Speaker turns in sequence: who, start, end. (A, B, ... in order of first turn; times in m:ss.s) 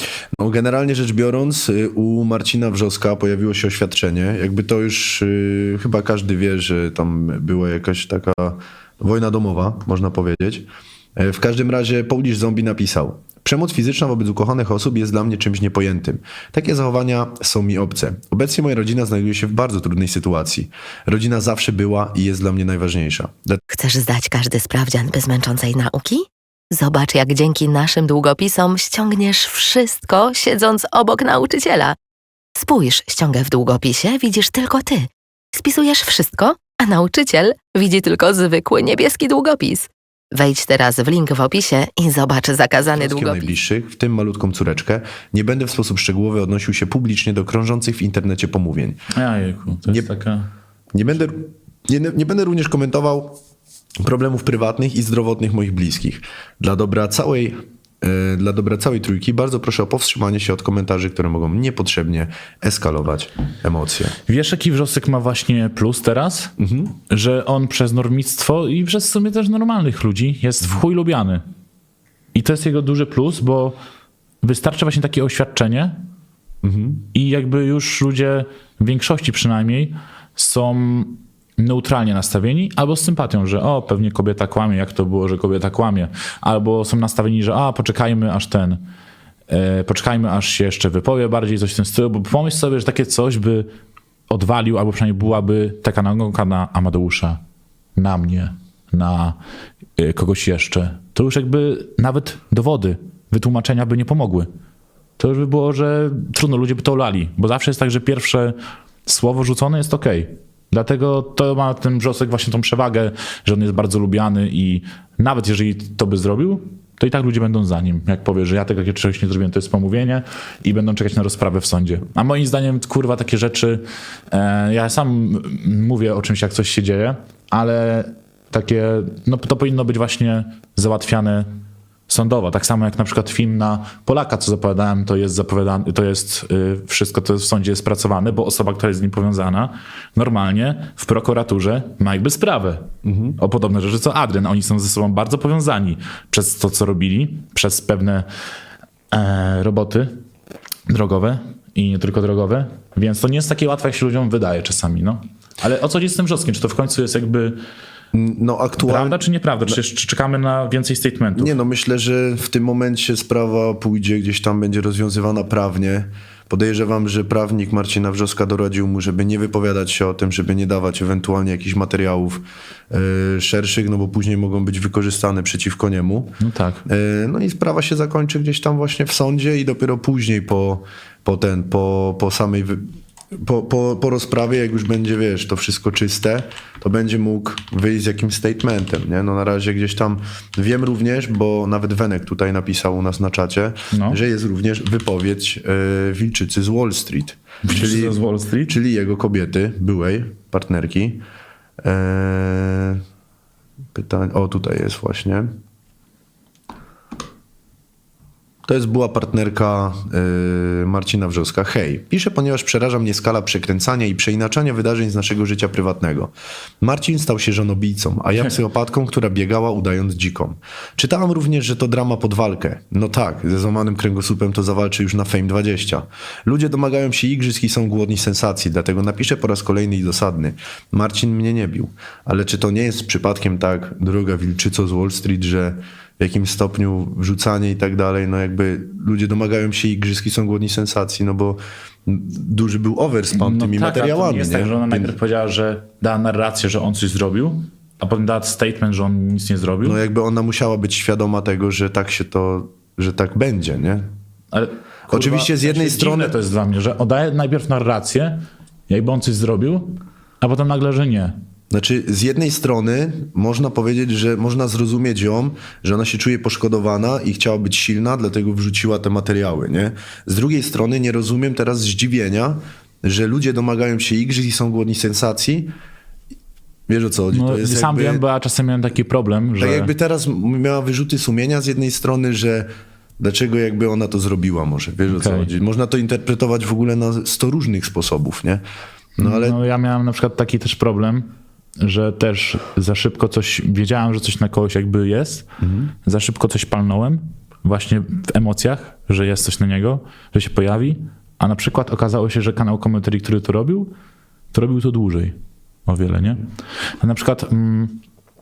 0:00.4-0:23.6 A
0:23.7-0:32.0 B
0:32.6-0:43.5 B
0:43.0-0:49.0 A
0:49.1-0:50.5 C
0:50.9-0:53.4 A
0:54.0-1:04.2 A
1:04.3-1:06.5 C
1:06.6-1:06.9 A
1:07.1-1:11.4 C
1:12.3-1:13.8 C
1:14.4-1:16.0 C
1:16.6-1:17.0 A
1:17.1-1:28.8 C
1:29.5-1:33.7 C
1:34.3-1:37.4 C
1:38.0-1:39.4 C
1:40.0-1:44.5 C
1:45.2-2:11.5 C
2:12.1-2:28.3 C
2:23.0-2:23.4 A
2:29.1-2:30.1 C
2:30.9-2:37.6 C
2:38.1-2:39.8 A
2:38.8-2:41.5 C
2:41.4-3:02.8 A
2:56.4-2:56.8 C
3:03.3-3:18.2 A
3:13.9-3:14.2 C
3:17.6-3:18.8 C
3:18.7-3:21.2 A
3:21.8-3:23.0 A
3:23.9-3:25.5 A
3:28.7-4:05.1 A
4:03.3-4:10.0 C
4:09.8-4:14.0 A
4:14.5-4:21.3 C
4:15.1-4:16.4 A
4:21.7-4:35.7 A
4:36.9-4:38.2 A
4:37.3-4:39.9 C
4:39.6-4:42.7 A
4:43.2-4:48.6 A
4:45.1-4:45.5 C
4:49.2-4:55.5 C
4:49.2-4:49.6 A
4:55.6-4:55.9 A
4:56.0-5:03.9 C
5:04.5-5:06.4 C
5:07.0-5:08.0 C